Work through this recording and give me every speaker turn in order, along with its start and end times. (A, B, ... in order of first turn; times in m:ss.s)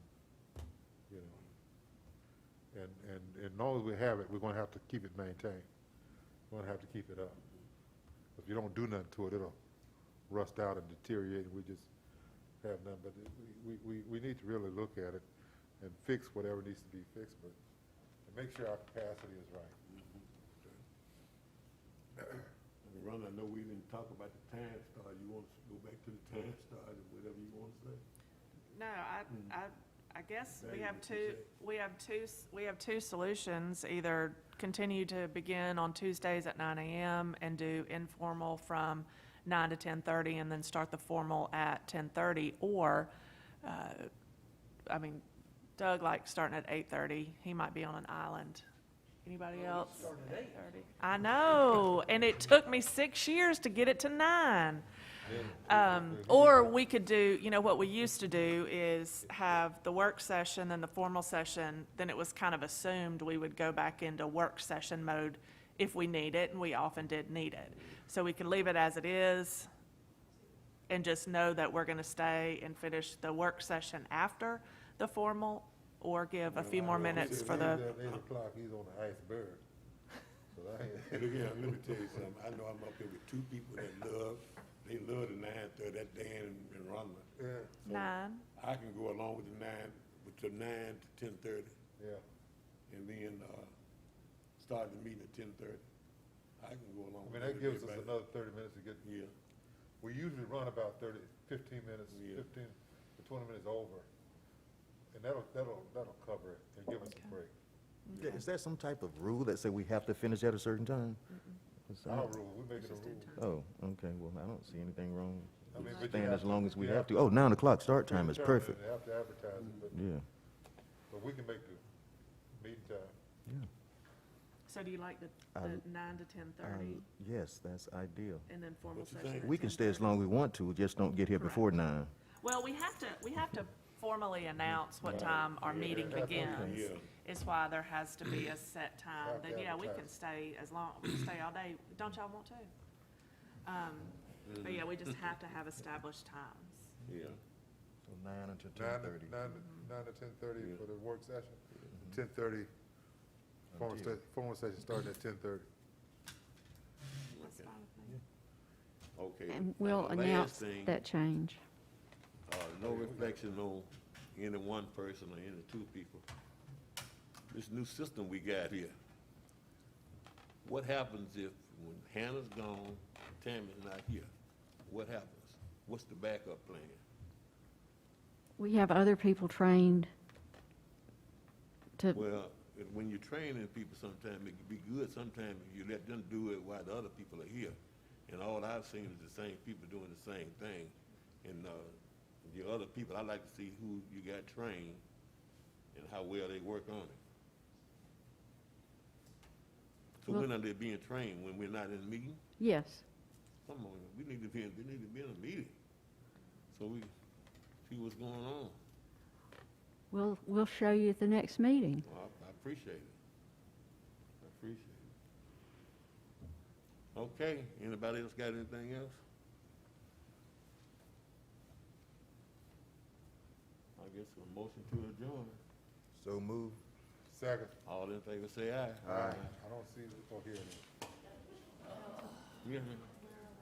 0:01.1-0:01.4 A
0:02.7-0:05.7 A
0:06.5-0:07.4 A
0:08.4-0:09.6 A
0:10.3-0:11.9 A
0:12.6-0:15.2 A
0:15.8-0:17.6 A
0:18.3-0:19.8 A
0:19.9-0:20.8 B
0:22.8-0:28.0 B
0:28.7-0:43.1 C
0:29.3-0:29.6 B
0:30.6-0:31.5 B
0:43.6-0:44.1 C
0:44.9-0:45.2 C
0:45.8-0:48.6 C
0:49.2-0:54.9 C
0:55.2-0:56.8 A
0:55.6-1:09.7 C
1:10.9-1:17.8 C
1:16.5-1:18.2 B
1:16.8-1:19.6 A
1:20.5-1:22.2 A
1:21.1-1:27.3 B
1:27.4-1:27.9 A
1:27.8-1:28.4 C
1:27.8-1:31.8 B
1:32.0-1:32.2 A
1:32.9-1:33.7 B
1:34.6-1:35.8 B
1:36.6-1:38.1 B
1:37.2-1:39.0 A
1:39.0-1:39.3 B
1:40.0-1:44.1 A
1:42.1-1:42.4 B
1:45.1-1:47.5 A
1:48.1-1:48.4 C
1:48.2-1:51.2 D
1:51.9-1:52.3 D
1:52.0-1:53.4 A
1:52.8-1:53.5 C
1:53.4-1:58.8 D
1:55.7-1:57.3 A
1:55.8-1:56.4 C
1:58.0-2:00.0 A
1:59.9-2:00.2 D
2:01.1-2:01.8 A
2:02.6-2:03.1 A
2:04.7-2:07.0 C
2:05.6-2:05.8 D
2:06.6-2:08.5 D
2:08.5-2:10.2 C
2:08.9-2:09.5 B
2:09.4-2:12.1 D
2:11.4-2:11.7 C
2:12.4-2:22.7 C
2:15.0-2:17.1 B
2:15.7-2:16.8 A
2:19.2-2:20.1 A
2:23.6-2:26.9 C
2:24.5-2:25.2 B
2:27.0-2:27.4 B
2:28.0-2:29.4 D
2:28.8-2:32.7 A
2:29.5-2:29.8 C
2:33.7-2:34.2 D
2:33.7-2:35.7 A
2:37.3-2:37.8 B
2:37.4-2:38.2 C
2:39.2-2:41.0 B
2:39.5-2:41.6 E
2:42.5-2:46.2 B
2:42.8-2:43.4 A
2:47.5-2:48.9 B
2:50.6-2:54.3 B
2:54.9-2:57.0 B
2:58.6-3:00.1 E
3:02.0-3:02.2 E
3:02.1-3:07.8 B
3:08.3-3:15.0 B
3:15.9-3:17.2 B
3:20.2-3:22.4 B
3:22.6-3:23.0 E
3:23.6-3:25.8 B
3:26.7-3:27.1 B
3:27.8-3:28.8 B
3:30.1-3:32.0 E
3:32.0-3:33.1 B
3:34.4-3:35.1 B
3:37.1-3:39.2 B
3:44.0-3:45.6 B
3:46.1-3:46.8 D
3:47.3-3:47.8 A
3:47.8-3:49.5 B
3:49.0-3:49.5 D
3:49.0-3:50.9 A
3:52.6-3:53.1 B